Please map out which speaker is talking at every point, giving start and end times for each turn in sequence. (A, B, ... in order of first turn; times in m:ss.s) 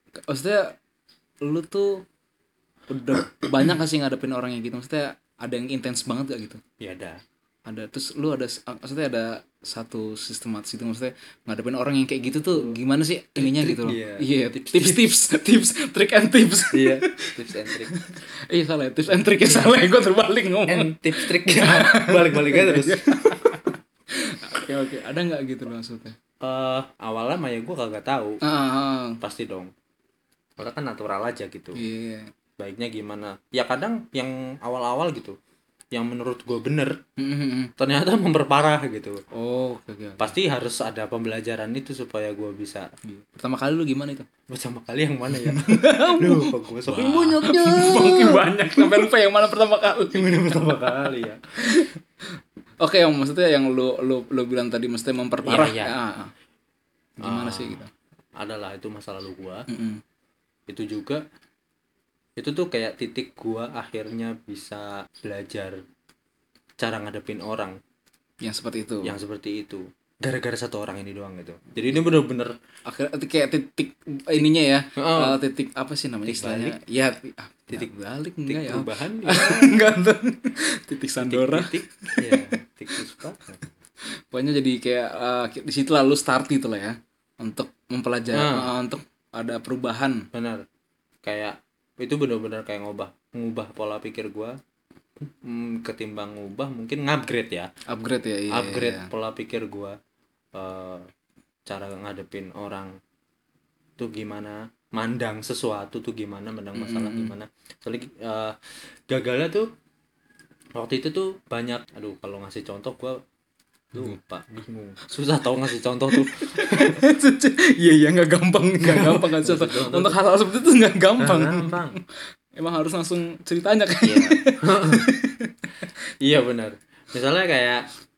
0:00.3-0:00.8 A
0:01.4-0:02.0 A
0:02.9-0:06.6 A
0:06.8-0:07.2 B
0:07.6-0:17.3 A
0:13.4-0:15.1 B
0:16.7-0:18.0 B
0:17.9-0:26.2 A
0:19.3-0:19.7 B
0:20.7-0:23.6 B
0:26.4-0:28.4 B
0:28.4-0:29.2 A
0:29.2-0:29.7 B
0:30.6-0:31.8 B
0:31.8-0:32.3 A
0:32.6-0:35.4 B
0:35.9-0:37.0 B
0:37.2-0:37.7 A
0:37.8-0:39.2 B
0:39.3-0:40.3 A
0:40.2-0:42.9 B
0:43.0-0:44.3 A
0:44.5-0:49.0 B
0:45.3-0:51.1 A
0:50.1-0:51.4 B
0:51.6-0:51.9 A
0:52.8-0:56.3 A
0:55.4-0:55.9 B
0:57.2-0:57.9 A
0:57.2-0:57.8 B
0:58.4-0:59.6 B
0:59.7-1:00.0 A
1:00.7-1:01.2 B
1:02.4-1:05.8 B
1:06.8-1:07.8 B
1:08.4-1:09.1 A
1:09.0-1:12.5 B
1:12.8-1:22.5 A
1:15.0-1:15.4 B
1:16.2-1:16.8 B
1:18.4-1:19.8 B
1:21.2-1:23.6 B
1:24.3-1:30.2 A
1:28.3-1:28.7 B
1:30.3-1:30.6 B
1:31.2-1:34.6 B
1:35.2-1:37.7 B
1:37.9-1:39.1 A
1:38.5-1:40.0 B
1:40.5-1:41.1 B
1:41.7-1:42.9 B
1:44.0-1:48.6 B
1:46.8-1:47.3 A
1:49.1-1:49.7 B
1:50.8-1:53.2 B
1:53.9-1:57.0 B
1:56.1-2:02.0 A
1:58.8-2:00.2 B
2:01.2-2:02.0 B
2:02.6-2:05.9 A
2:04.0-2:05.1 B
2:06.2-2:07.8 B